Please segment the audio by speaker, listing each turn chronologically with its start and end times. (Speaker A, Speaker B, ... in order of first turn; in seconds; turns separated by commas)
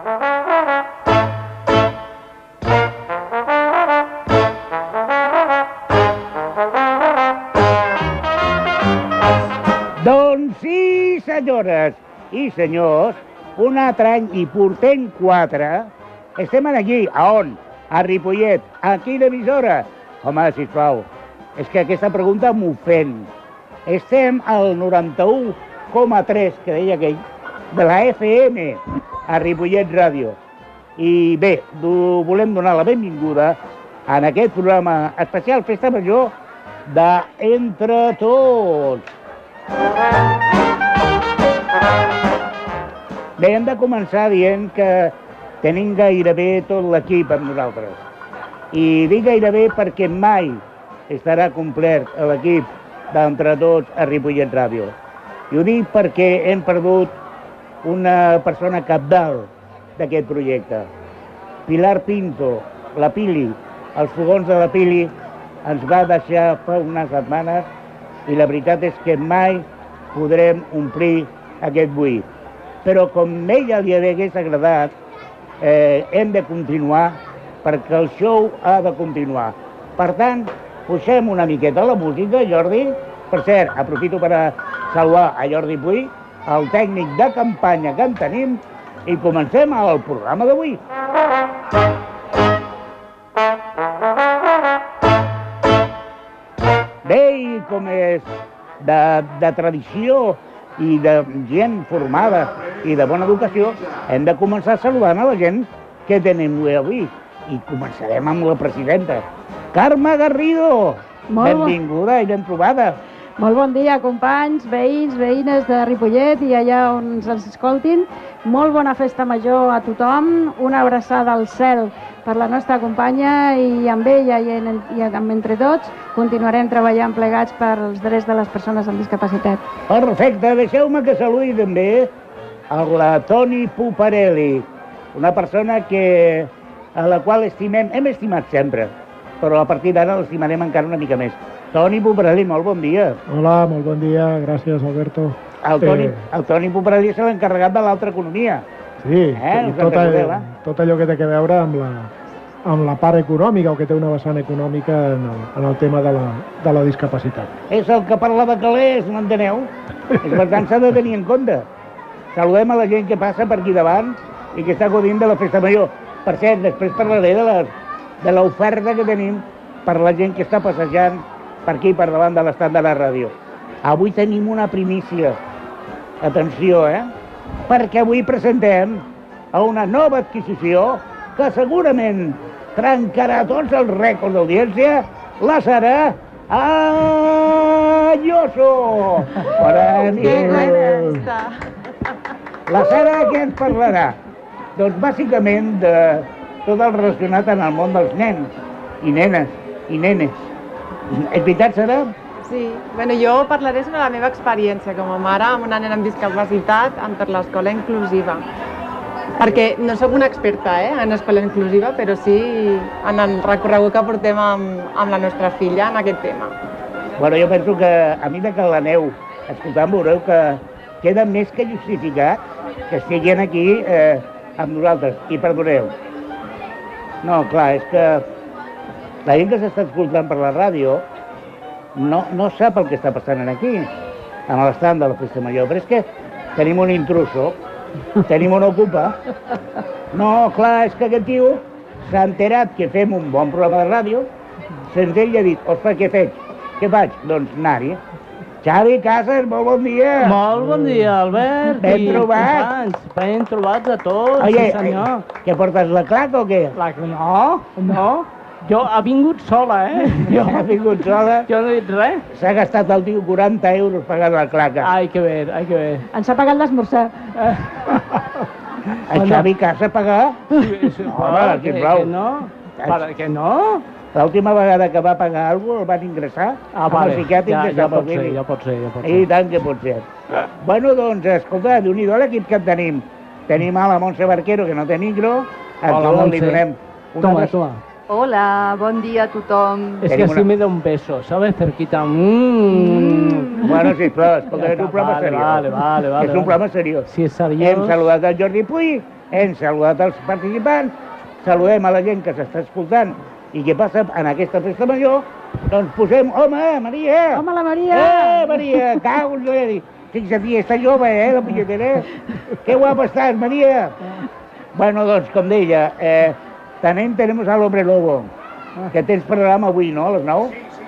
Speaker A: 10.0-23.3, Speaker A: 23.9-30.4, Speaker A: 31.0-36.3, Speaker A: 36.9-39.0, Speaker A: 43.4-48.0, Speaker A: 48.7-54.9, Speaker A: 55.5-57.1, Speaker A: 57.8-60.9, Speaker A: 61.7-65.1, Speaker A: 65.6-67.7, Speaker A: 68.3-72.2, Speaker A: 72.8-74.9, Speaker A: 75.6-90.8, Speaker A: 97.0-98.3, Speaker A: 98.8-113.0, Speaker B: 111.3-111.8, Speaker B: 113.4-129.6, Speaker A: 129.9-132.1, Speaker A: 132.7-143.2, Speaker C: 143.3-146.2, Speaker A: 145.6-148.6, Speaker C: 149.0-152.1, Speaker A: 149.3-150.5, Speaker C: 152.7-157.5, Speaker A: 157.7-161.7, Speaker A: 162.3-175.4, Speaker A: 176.2-177.1, Speaker A: 177.7-190.9, Speaker D: 190.2-191.7, Speaker C: 190.2-191.2, Speaker A: 192.7-194.2, Speaker A: 194.8-198.5, Speaker A: 199.0-200.4, Speaker A: 201.1-202.1, Speaker D: 202.4-208.4, Speaker D: 209.4-216.5, Speaker A: 217.2-222.4, Speaker A: 222.9-225.9, Speaker A: 227.2-228.2, Speaker A: 229.2-231.0, Speaker A: 231.9-233.9, Speaker A: 234.5-236.0, Speaker A: 236.6-237.6, Speaker A: 238.2-239.2, Speaker A: 240.1-244.3, Speaker A: 244.9-248.0, Speaker A: 248.6-250.9, Speaker E: 250.2-255.2, Speaker A: 251.8-252.7, Speaker A: 254.4-257.6, Speaker E: 256.7-260.8, Speaker A: 260.2-261.5, Speaker E: 261.5-262.3, Speaker A: 262.3-264.9, Speaker E: 264.8-266.1, Speaker B: 266.1-267.3, Speaker E: 267.4-268.2, Speaker E: 269.1-269.5, Speaker A: 269.1-270.6, Speaker E: 270.5-273.8, Speaker A: 271.1-272.1, Speaker A: 272.8-273.0, Speaker A: 274.1-278.4, Speaker E: 276.7-279.3, Speaker A: 279.0-287.6, Speaker E: 285.9-286.6, Speaker E: 287.2-287.8, Speaker F: 288.1-290.1, Speaker A: 290.1-290.5, Speaker E: 290.1-294.0, Speaker F: 292.9-293.4, Speaker A: 293.6-297.1, Speaker E: 294.5-298.0, Speaker A: 297.6-314.0, Speaker B: 307.3-308.8, Speaker A: 314.8-318.3, Speaker A: 318.9-320.6